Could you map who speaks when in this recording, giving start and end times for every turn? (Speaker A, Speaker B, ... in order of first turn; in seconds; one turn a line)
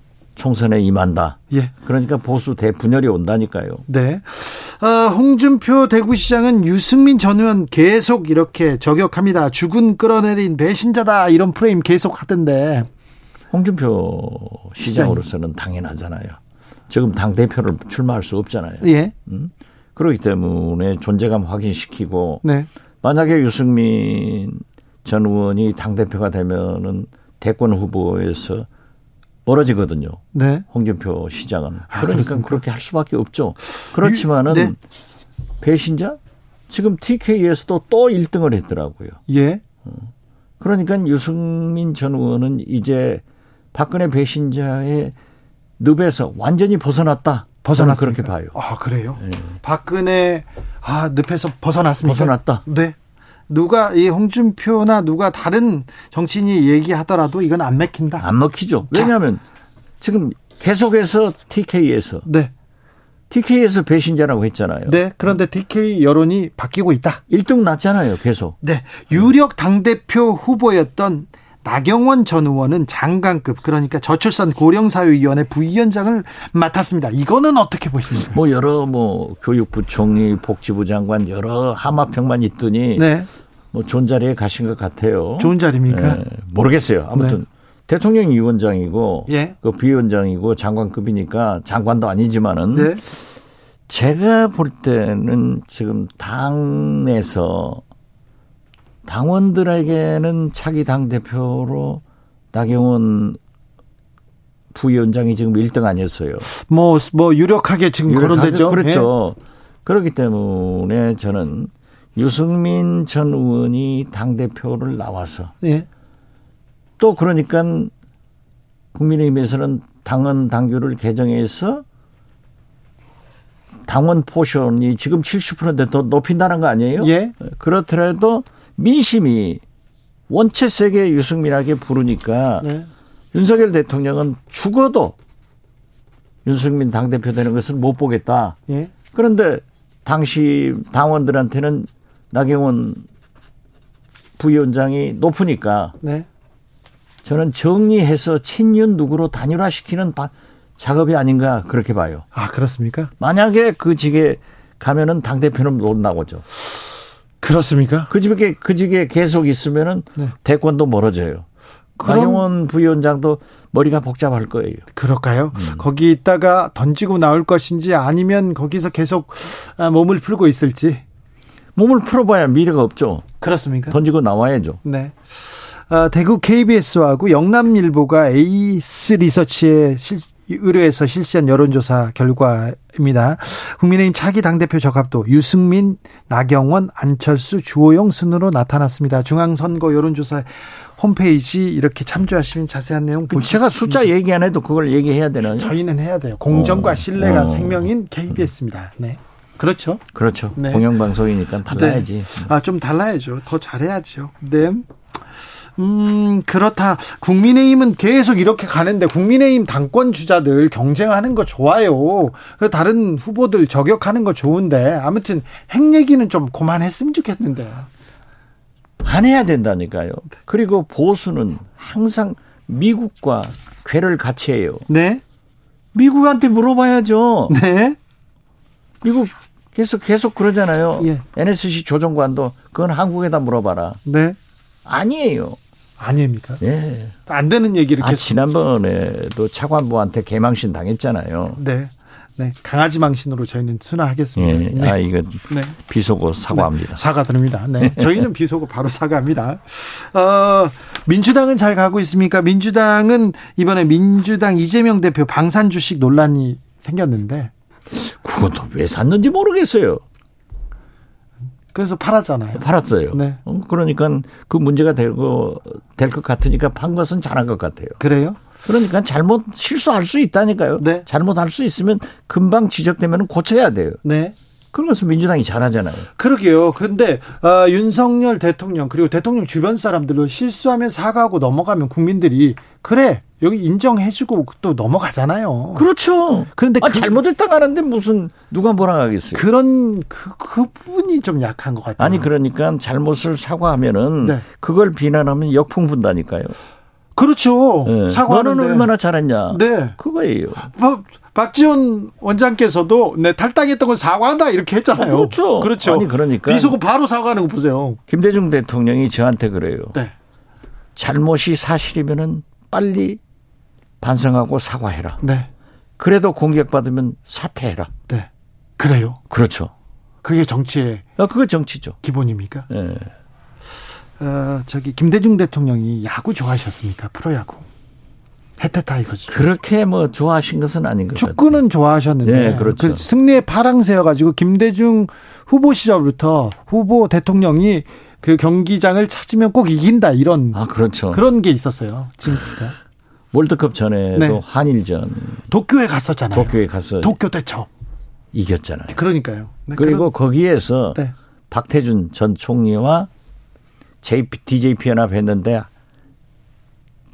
Speaker A: 0.3-3.8
Speaker B: 3.9-12.9
Speaker A: 13.5-16.4
Speaker B: 14.8-15.2
Speaker A: 16.9-22.4
Speaker B: 18.8-19.1
Speaker B: 22.4-22.7
Speaker A: 23.0-28.7
Speaker A: 29.4-34.8
Speaker B: 30.3-30.6
Speaker B: 31.9-32.6
Speaker B: 33.9-34.7
Speaker A: 35.6-36.2
Speaker A: 36.7-39.2
Speaker B: 39.3-39.6
Speaker A: 40.6-43.2
Speaker A: 43.7-45.1
Speaker A: 45.8-48.5
Speaker B: 47.6-53.0
Speaker A: 49.2-49.5
Speaker A: 52.0-52.6
Speaker B: 53.5-58.3
Speaker A: 58.2-59.4
Speaker A: 60.0-62.3
Speaker B: 62.2-62.5
Speaker A: 63.3-65.0
Speaker B: 64.9-67.2
Speaker A: 67.3-68.5
Speaker B: 68.6-78.4
Speaker A: 78.3-83.1
Speaker B: 83.0-83.3
Speaker A: 83.7-93.1
Speaker B: 85.4-86.2
Speaker B: 89.3-89.5
Speaker B: 92.7-93.0
Speaker A: 93.9-97.8
Speaker A: 99.0-102.0
Speaker A: 102.5-103.4
Speaker A: 104.7-106.5
Speaker B: 106.5-109.1
Speaker A: 108.1-115.5
Speaker B: 115.6-115.9
Speaker A: 117.0-117.9
Speaker A: 118.9-121.8
Speaker A: 123.9-129.6
Speaker B: 127.0-127.3
Speaker A: 130.3-132.7
Speaker B: 132.6-132.9
Speaker A: 133.3-135.1
Speaker A: 136.4-138.6
Speaker A: 139.1-143.0
Speaker A: 144.4-145.9
Speaker B: 146.0-146.3
Speaker A: 147.2-152.2
Speaker B: 152.3-153.1
Speaker A: 153.2-156.4
Speaker B: 157.4-158.1
Speaker A: 158.1-161.4
Speaker B: 162.0-162.4
Speaker A: 162.0-164.8
Speaker B: 164.9-171.0
Speaker A: 165.5-165.8
Speaker A: 171.8-173.3
Speaker B: 173.4-174.0
Speaker A: 173.9-174.8
Speaker B: 174.8-194.1
Speaker A: 193.3-195.7
Speaker B: 195.4-200.0
Speaker A: 196.5-197.9
Speaker A: 200.1-202.5
Speaker B: 200.6-200.8
Speaker B: 201.7-204.9
Speaker B: 205.8-217.9
Speaker A: 219.0-224.9
Speaker B: 224.9-225.2
Speaker A: 225.9-227.6
Speaker B: 227.5-228.0
Speaker A: 229.0-234.0
Speaker B: 234.1-234.4
Speaker A: 234.8-235.6
Speaker B: 236.0-236.6
Speaker A: 236.6-237.2
Speaker B: 237.3-238.3
Speaker A: 238.0-241.6
Speaker B: 241.6-245.0
Speaker A: 244.4-247.0
Speaker B: 245.5-245.8
Speaker B: 246.5-257.5
Speaker A: 247.8-248.2
Speaker A: 257.9-260.0
Speaker B: 261.7-263.4
Speaker A: 262.5-268.0
Speaker B: 268.0-268.4
Speaker A: 268.6-274.0
Speaker B: 270.8-271.1
Speaker B: 274.0-274.3
Speaker A: 274.7-276.1
Speaker B: 276.2-285.9
Speaker A: 285.7-289.4
Speaker B: 286.5-287.2
Speaker B: 289.3-292.3
Speaker A: 292.0-296.6
Speaker B: 297.1-298.9
Speaker A: 297.8-300.7
Speaker B: 299.5-300.0
Speaker B: 300.7-308.0
Speaker A: 305.0-306.8
Speaker A: 308.1-310.0
Speaker A: 310.9-313.2
Speaker A: 314.0-315.2
Speaker B: 315.2-315.5
Speaker A: 316.0-317.9
Speaker B: 318.1-319.2
Speaker A: 319.3-319.7
Speaker B: 320.2-321.1
Speaker A: 321.2-322.0
Speaker B: 322.0-322.7
Speaker A: 322.7-323.1
Speaker B: 324.2-327.7
Speaker B: 328.6-329.6
Speaker A: 329.3-331.6
Speaker B: 331.1-340.6
Speaker A: 332.2-333.0
Speaker A: 340.5-341.2
Speaker B: 341.1-342.7
Speaker A: 343.3-345.4
Speaker B: 344.1-344.4
Speaker B: 345.5-347.7
Speaker A: 346.3-347.1
Speaker A: 348.3-349.0
Speaker B: 348.9-350.1
Speaker A: 349.8-353.1
Speaker A: 354.0-355.7